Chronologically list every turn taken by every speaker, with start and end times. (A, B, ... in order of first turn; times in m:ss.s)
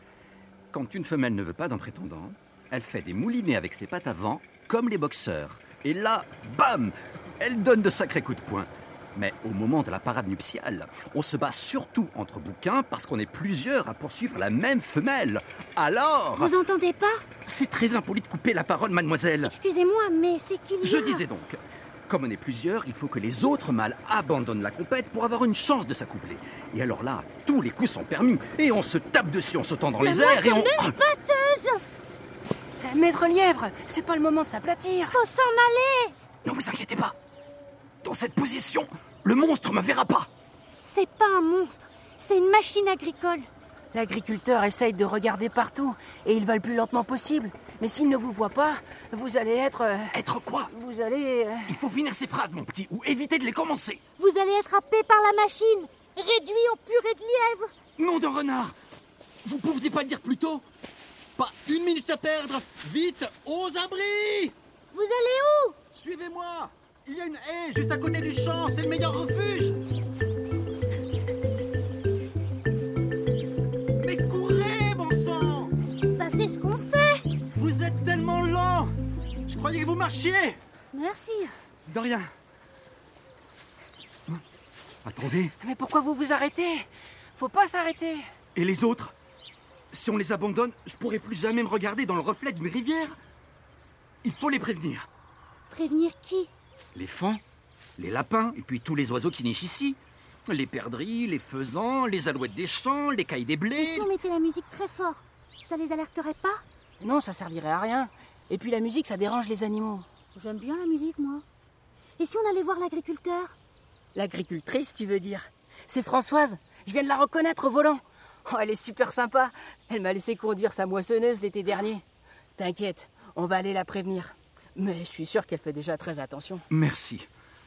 0:00.7-0:16.5 A
0:16.4-0:17.2 B
0:17.4-0:19.5 A
0:19.4-0:21.2 B
0:20.8-0:21.6 A
0:22.1-0:30.9 A
0:30.0-0:31.8 B
0:32.8-0:35.2 C
0:35.1-0:36.1 B
0:36.4-0:37.2 A
0:38.0-0:40.3 A
0:40.8-0:43.5 B
0:43.9-0:51.8 C
0:50.1-0:50.7 A
0:51.7-0:54.0 A
0:54.2-0:57.7 B
0:58.0-0:58.8 A
0:59.4-1:00.6 A
1:01.4-1:04.5 A
1:04.9-1:05.8 B
1:05.9-1:09.8 A
1:14.0-1:15.7 A
1:16.2-1:17.2 B
1:17.6-1:18.9 A
1:19.5-1:20.6 A
1:20.9-1:21.5 B
1:21.8-1:22.3 A
1:25.0-1:25.5 A
1:25.6-1:28.2 C
1:28.5-1:29.1 A
1:29.9-1:33.2 A
1:34.2-1:35.0 A
1:35.7-1:36.5 B
1:36.9-1:37.4 A
1:38.0-1:44.1 A
1:43.8-1:46.6 B
1:47.0-1:50.0 C
1:50.3-1:51.4 B
1:52.2-1:53.5 B
1:54.1-2:02.0 C
2:02.6-2:06.7 C
2:06.7-2:07.3 A